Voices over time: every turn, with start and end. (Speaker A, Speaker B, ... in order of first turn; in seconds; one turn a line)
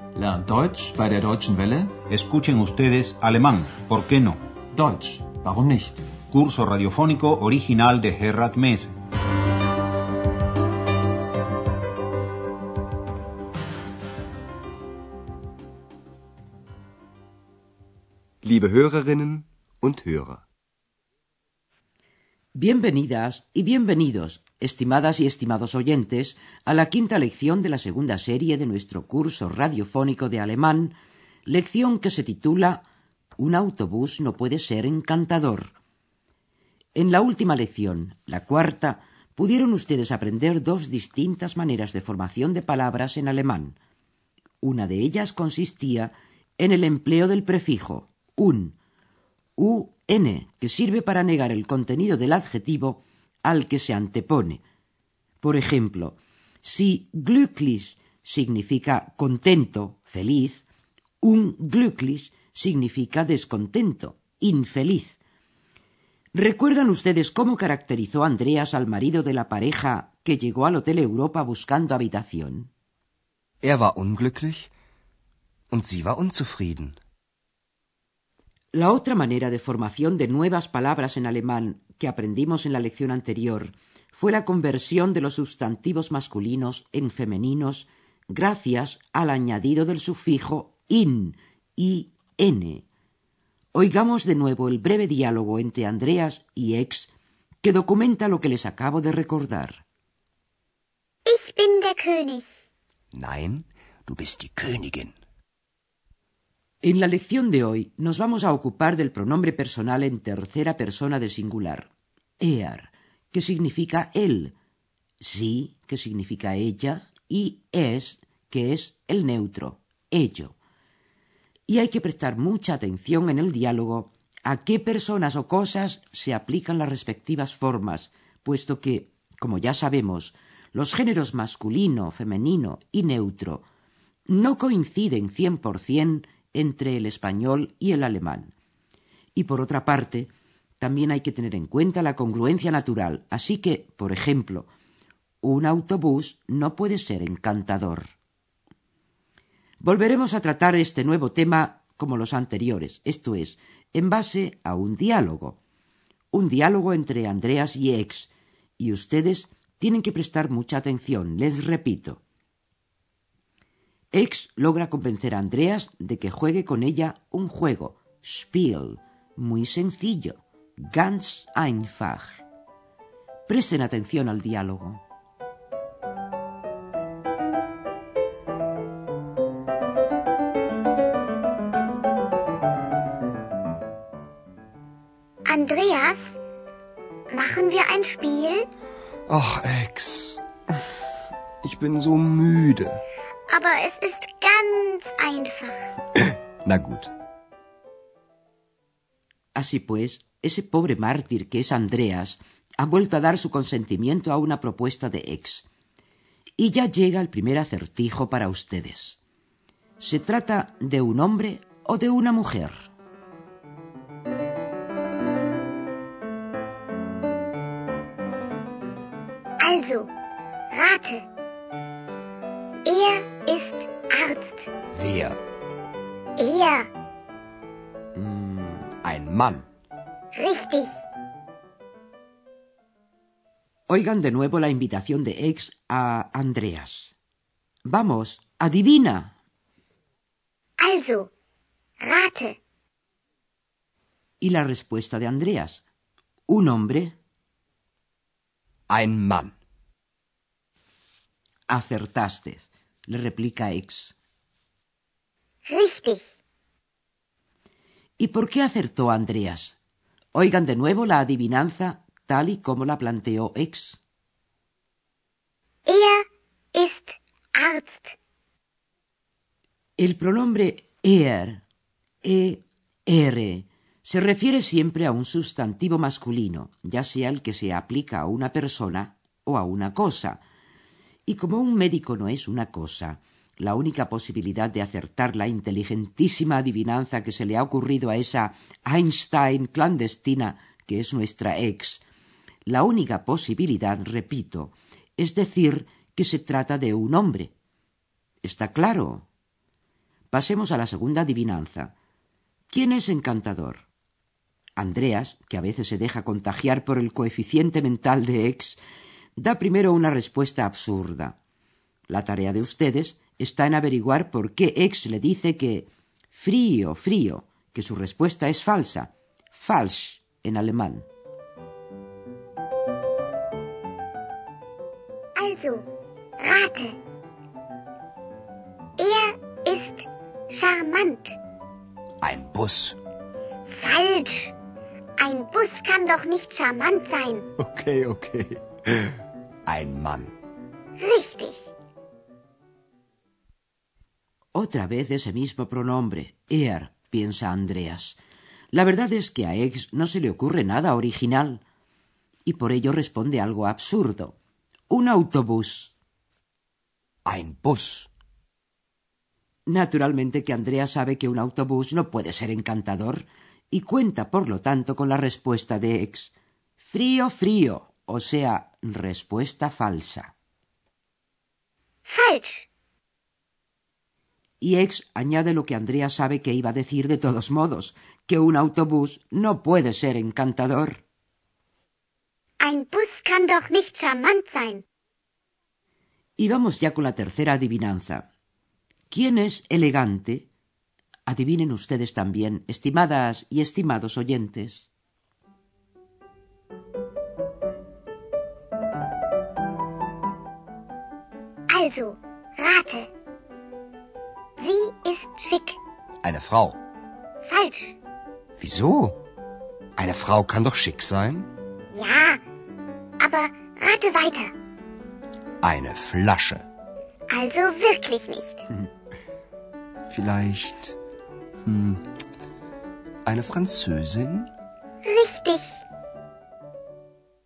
Speaker A: 0.2-2.0
Speaker B: 2.1-4.4
Speaker A: 4.8-6.0
Speaker B: 6.3-8.9
Speaker C: 18.4-20.4
Speaker D: 22.6-32.9
Speaker D: 33.4-35.8
Speaker D: 37.0-43.8
Speaker D: 44.6-48.8
Speaker D: 49.6-54.6
Speaker D: 55.4-60.6
Speaker D: 61.2-65.2
Speaker D: 66.3-72.7
Speaker C: 73.6-74.7
Speaker C: 75.7-77.0
Speaker D: 78.7-92.8
Speaker D: 93.7-97.1
Speaker D: 97.6-99.8
Speaker E: 101.3-102.7
Speaker C: 103.1-105.2
Speaker D: 106.8-114.5
Speaker D: 115.2-120.6
Speaker D: 121.7-133.7
Speaker D: 134.3-138.5
Speaker D: 139.4-144.7
Speaker D: 145.4-148.1
Speaker D: 149.8-155.6
Speaker D: 156.3-162.2
Speaker D: 164.1-172.4
Speaker D: 173.5-175.0
Speaker E: 185.5-186.4
Speaker E: 187.3-188.7
Speaker C: 189.3-190.4
Speaker C: 191.6-193.0
Speaker E: 193.5-195.9
Speaker C: 196.2-197.1
Speaker D: 199.6-205.7
Speaker D: 206.6-209.2
Speaker D: 210.0-212.9
Speaker E: 219.6-220.1
Speaker E: 220.7-221.3
Speaker E: 222.8-224.7
Speaker C: 224.9-225.4
Speaker E: 226.4-226.9
Speaker D: 228.2-228.9
Speaker C: 229.0-229.7
Speaker E: 230.3-231.1
Speaker D: 233.9-237.2
Speaker D: 237.8-239.3
Speaker E: 240.8-241.3
Speaker E: 242.0-242.6
Speaker D: 244.4-245.8
Speaker D: 246.5-247.2
Speaker C: 248.9-249.6
Speaker D: 251.7-254.2
Speaker E: 255.7-256.4
Speaker D: 258.2-259.8
Speaker D: 260.3-264.0
Speaker E: 265.9-266.2
Speaker E: 266.7-268.2
Speaker D: 270.0-271.6
Speaker D: 272.2-280.4
Speaker D: 281.3-292.0
Speaker D: 292.7-297.5
Speaker D: 298.4-299.3
Speaker D: 300.3-301.9
Speaker D: 302.7-303.9
Speaker D: 304.8-308.8
Speaker D: 309.4-311.4
Speaker D: 312.1-321.1
Speaker E: 325.4-325.9
Speaker E: 326.4-327.0
Speaker E: 329.0-331.4
Speaker C: 332.2-333.0
Speaker E: 333.7-334.6
Speaker E: 335.2-337.5
Speaker C: 337.6-339.1
Speaker C: 339.7-340.3
Speaker E: 341.0-341.7
Speaker D: 344.5-348.2
Speaker D: 348.7-351.6
Speaker D: 352.4-354.4
Speaker D: 354.9-355.9
Speaker C: 357.3-358.1
Speaker D: 359.7-370.3
Speaker E: 372.1-372.7
Speaker D: 374.6-381.0
Speaker E: 382.6-384.8
Speaker D: 386.4-388.3
Speaker D: 389.1-390.5
Speaker D: 391.3-394.9
Speaker E: 401.7-403.1
Speaker E: 404.6-405.8
Speaker C: 406.2-406.8
Speaker E: 407.4-408.0
Speaker C: 408.6-409.2
Speaker C: 410.0-411.5
Speaker E: 411.9-412.4
Speaker E: 413.2-414.5
Speaker C: 415.6-416.7
Speaker E: 417.3-418.6
Speaker C: 420.1-421.0
Speaker C: 421.6-422.0
Speaker C: 423.3-424.5
Speaker E: 425.1-425.9